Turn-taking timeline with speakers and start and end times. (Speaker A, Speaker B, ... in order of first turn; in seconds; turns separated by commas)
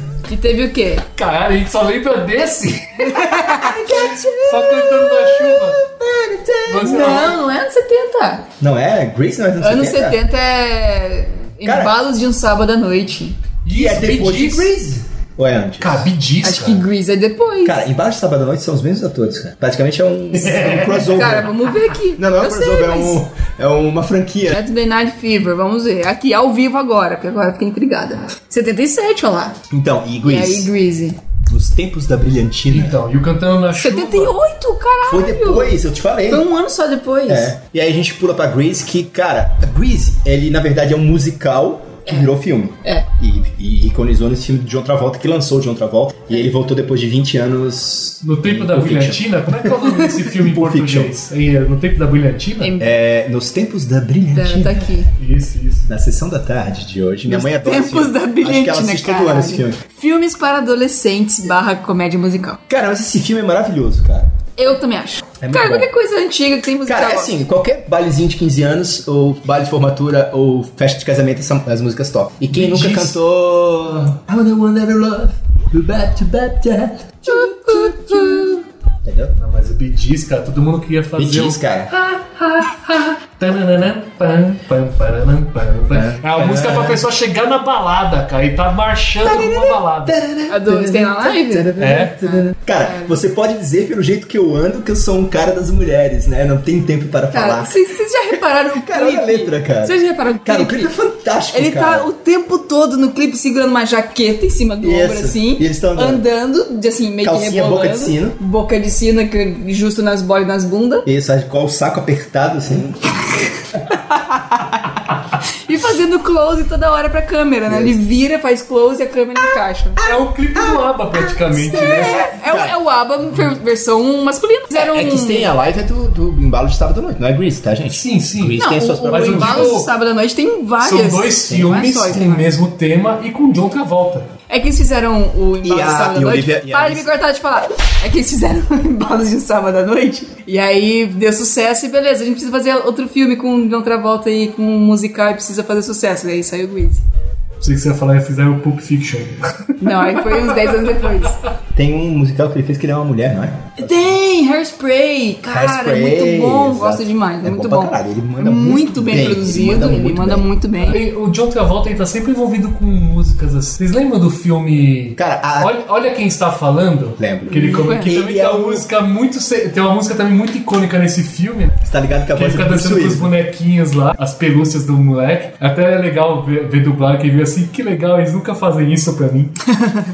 Speaker A: 0.3-1.1, Speaker B: 1.2-5.8, Speaker A: 3.0-5.6, Speaker C: 5.9-7.3, Speaker B: 6.7-7.4, Speaker A: 6.8-8.4, Speaker C: 8.6-10.2, Speaker A: 9.6-13.4, Speaker C: 11.6-12.0, Speaker B: 13.6-14.7, Speaker C: 13.7-16.1, Speaker B: 15.8-16.8, Speaker A: 16.4-17.8, Speaker C: 17.6-21.6, Speaker B: 20.4-21.1, Speaker A: 21.1-23.2, Speaker C: 22.1-24.6, Speaker A: 24.5-29.6, Speaker C: 29.7-30.7, Speaker A: 30.2-31.2, Speaker C: 31.5-33.0, Speaker B: 32.7-34.4, Speaker A: 33.8-35.8, Speaker C: 35.1-36.5, Speaker A: 36.3-37.5, Speaker C: 37.3-51.1, Speaker B: 48.2-52.7, Speaker A: 52.6-52.9, Speaker C: 52.8-54.9, Speaker A: 54.3-55.1, Speaker B: 55.2-55.9, Speaker C: 55.9-59.8, Speaker A: 57.3-62.6, Speaker C: 62.7-64.3, Speaker A: 64.6-67.3, Speaker C: 65.4-65.9, Speaker C: 66.8-78.5, Speaker B: 72.5-73.2, Speaker A: 77.3-78.6, Speaker C: 79.0-79.4, Speaker B: 79.4-90.2, Speaker C: 81.2-81.9, Speaker C: 85.9-87.0, Speaker C: 89.2-97.8, Speaker A: 90.5-93.2, Speaker B: 91.8-92.2, Speaker A: 97.3-100.9, Speaker C: 98.7-102.1, Speaker A: 101.5-111.1, Speaker C: 104.8-106.2, Speaker C: 107.2-108.4, Speaker C: 111.0-113.2, Speaker A: 114.1-114.6, Speaker A: 115.7-120.0, Speaker C: 117.7-118.0, Speaker C: 120.0-120.8, Speaker B: 120.0-122.2, Speaker C: 121.6-122.8, Speaker A: 121.6-125.5, Speaker C: 124.7-129.8, Speaker B: 127.9-129.9, Speaker A: 128.6-132.5, Speaker B: 130.8-134.3, Speaker A: 134.5-147.0, Speaker C: 135.6-137.1, Speaker B: 147.6-151.1, Speaker A: 149.8-151.4, Speaker C: 151.8-154.2, Speaker A: 153.8-161.0, Speaker C: 155.5-160.5, Speaker B: 160.8-171.8, Speaker C: 165.2-165.7, Speaker C: 167.2-168.9, Speaker A: 167.5-168.1, Speaker C: 171.8-173.3, Speaker B: 172.3-179.5, Speaker A: 179.8-180.1